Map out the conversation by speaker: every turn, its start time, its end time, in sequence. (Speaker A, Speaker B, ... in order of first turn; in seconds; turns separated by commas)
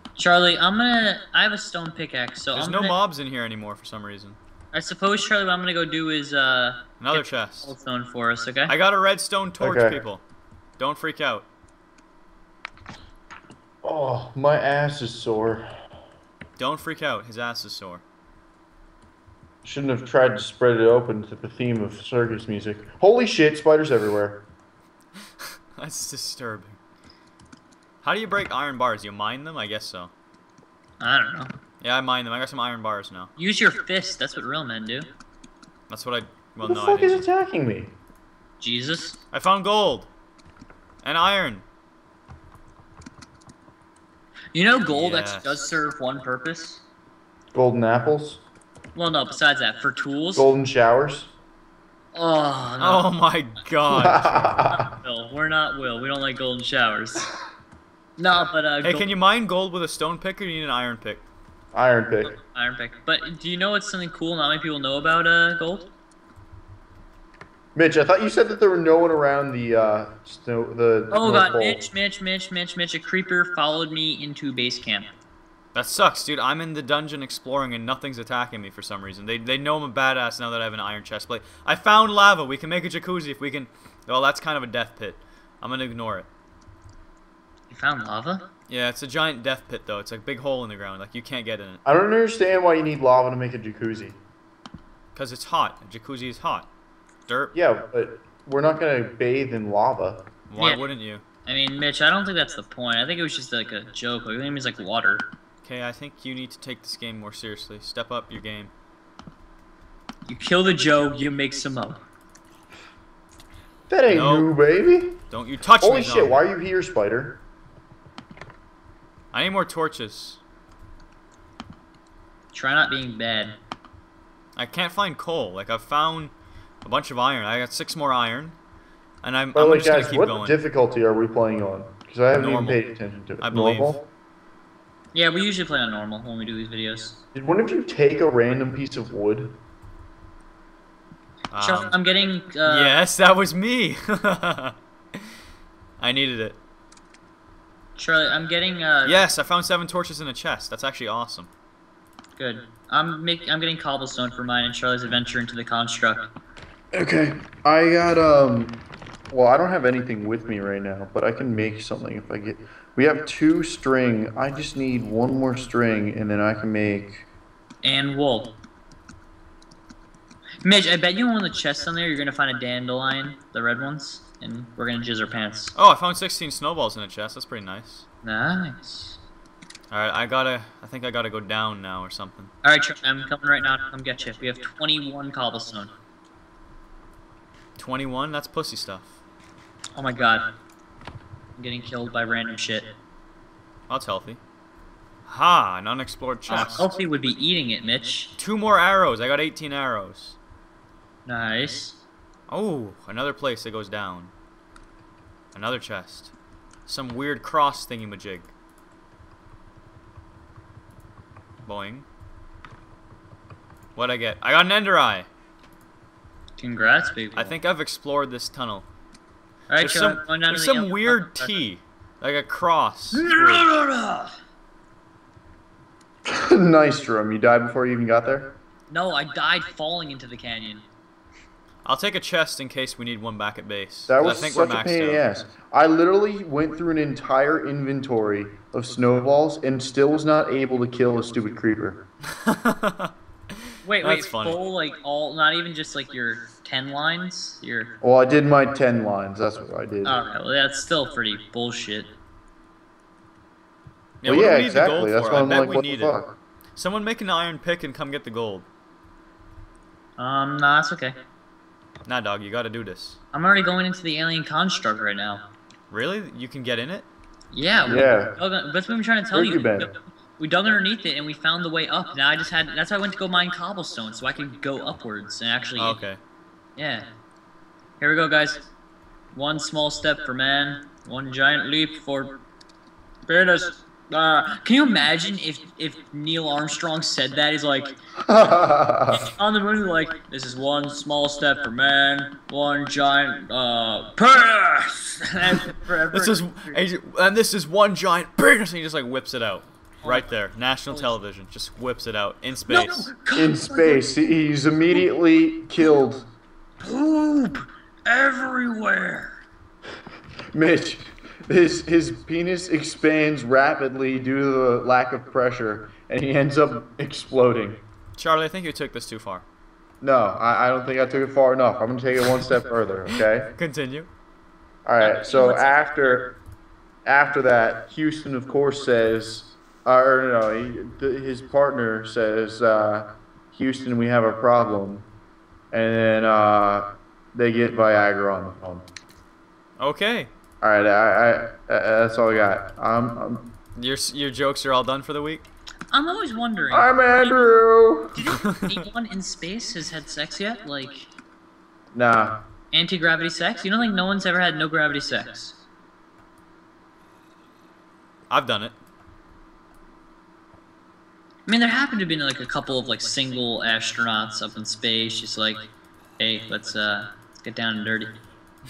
Speaker A: 0.2-3.0, Speaker B: 2.5-4.4, Speaker A: 4.7-8.7, Speaker B: 7.0-7.7, Speaker B: 8.7-10.2, Speaker C: 9.6-10.0, Speaker B: 10.8-11.5, Speaker C: 13.8-15.7, Speaker B: 16.6-18.0, Speaker C: 19.6-24.5, Speaker B: 25.8-26.8, Speaker B: 28.0-30.1, Speaker A: 31.0-31.5, Speaker B: 31.8-33.3, Speaker A: 33.4-35.1, Speaker B: 35.9-37.2, Speaker C: 36.6-37.9, Speaker A: 38.6-39.2, Speaker B: 39.3-40.1, Speaker B: 41.0-41.6, Speaker A: 44.5-46.8, Speaker B: 44.9-45.5, Speaker C: 47.5-48.4, Speaker A: 48.9-50.5, Speaker C: 50.4-51.3, Speaker A: 52.1-53.1, Speaker B: 52.8-54.5, Speaker C: 53.9-54.9, Speaker A: 54.6-57.3, Speaker A: 58.2-59.1, Speaker B: 58.8-61.2, Speaker C: 61.7-62.4, Speaker A: 62.3-65.9, Speaker C: 67.7-71.8, Speaker A: 71.1-75.1, Speaker B: 75.7-86.3, Speaker A: 87.7-88.5, Speaker B: 88.7-91.8, Speaker C: 91.8-94.2, Speaker B: 95.1-96.7, Speaker B: 97.3-97.5, Speaker C: 97.5-100.3, Speaker B: 100.5-101.2, Speaker A: 100.5-100.8, Speaker A: 101.5-105.3, Speaker B: 105.6-108.7, Speaker A: 110.2-112.0, Speaker C: 113.9-115.2, Speaker B: 114.1-114.5, Speaker B: 115.3-116.4, Speaker C: 115.8-117.4, Speaker B: 119.3-120.4, Speaker A: 122.5-123.6, Speaker B: 124.5-128.6, Speaker B: 129.2-130.6, Speaker C: 129.5-134.0, Speaker B: 132.3-132.8, Speaker B: 133.4-134.0, Speaker A: 135.1-137.2, Speaker C: 137.3-139.6, Speaker B: 141.5-142.0, Speaker A: 141.6-143.0, Speaker B: 142.6-144.7, Speaker B: 146.0-146.6, Speaker A: 147.9-149.2, Speaker B: 149.0-151.5, Speaker A: 152.4-156.3, Speaker C: 156.9-167.2, Speaker A: 167.8-168.5, Speaker A: 170.6-175.7, Speaker B: 175.7-178.1, Speaker A: 178.2-179.2, Speaker B: 179.9-182.5, Speaker A: 182.6-185.9, Speaker B: 187.8-189.2, Speaker A: 189.9-190.5, Speaker A: 191.6-192.9, Speaker B: 193.9-194.4, Speaker B: 195.3-196.9, Speaker A: 196.5-198.3, Speaker B: 198.4-200.4, Speaker A: 201.2-202.0, Speaker B: 202.5-204.3, Speaker B: 205.5-206.3, Speaker B: 206.9-208.5, Speaker B: 211.6-212.1, Speaker B: 213.9-215.3, Speaker A: 216.6-217.6, Speaker B: 217.3-218.9, Speaker A: 219.7-221.5, Speaker B: 219.8-223.7, Speaker A: 223.1-224.3, Speaker C: 226.3-228.5, Speaker A: 228.9-230.8, Speaker B: 231.8-235.2, Speaker C: 234.1-242.0, Speaker B: 242.4-243.1, Speaker A: 243.8-247.9, Speaker B: 244.0-244.6, Speaker C: 248.0-250.2, Speaker A: 250.0-252.1, Speaker B: 254.2-256.2, Speaker C: 254.2-256.4, Speaker B: 256.8-258.7, Speaker A: 260.2-261.1, Speaker B: 262.0-263.2, Speaker A: 263.3-265.4, Speaker B: 265.9-267.1, Speaker A: 267.5-276.0, Speaker C: 267.8-268.3, Speaker C: 269.3-269.9, Speaker B: 275.8-276.2, Speaker A: 276.8-277.1, Speaker A: 278.0-278.7, Speaker A: 279.3-282.4, Speaker A: 283.3-287.9, Speaker C: 288.2-289.3, Speaker A: 289.1-296.8, Speaker B: 296.1-303.1, Speaker A: 300.0-300.3, Speaker A: 302.7-304.2, Speaker C: 303.3-306.2, Speaker A: 306.8-309.3, Speaker C: 310.5-317.8, Speaker B: 318.2-319.4, Speaker C: 320.0-323.5, Speaker B: 322.2-322.5, Speaker B: 323.1-324.1, Speaker C: 324.9-326.4, Speaker A: 325.0-325.8, Speaker C: 327.0-335.1, Speaker C: 335.7-338.9, Speaker B: 339.8-340.3, Speaker C: 340.6-343.5, Speaker B: 343.8-345.5, Speaker A: 345.9-347.2, Speaker C: 346.7-348.2, Speaker A: 348.1-351.1, Speaker B: 348.5-348.7, Speaker C: 351.9-352.4, Speaker A: 352.7-355.6, Speaker B: 358.3-358.7, Speaker A: 361.4-368.2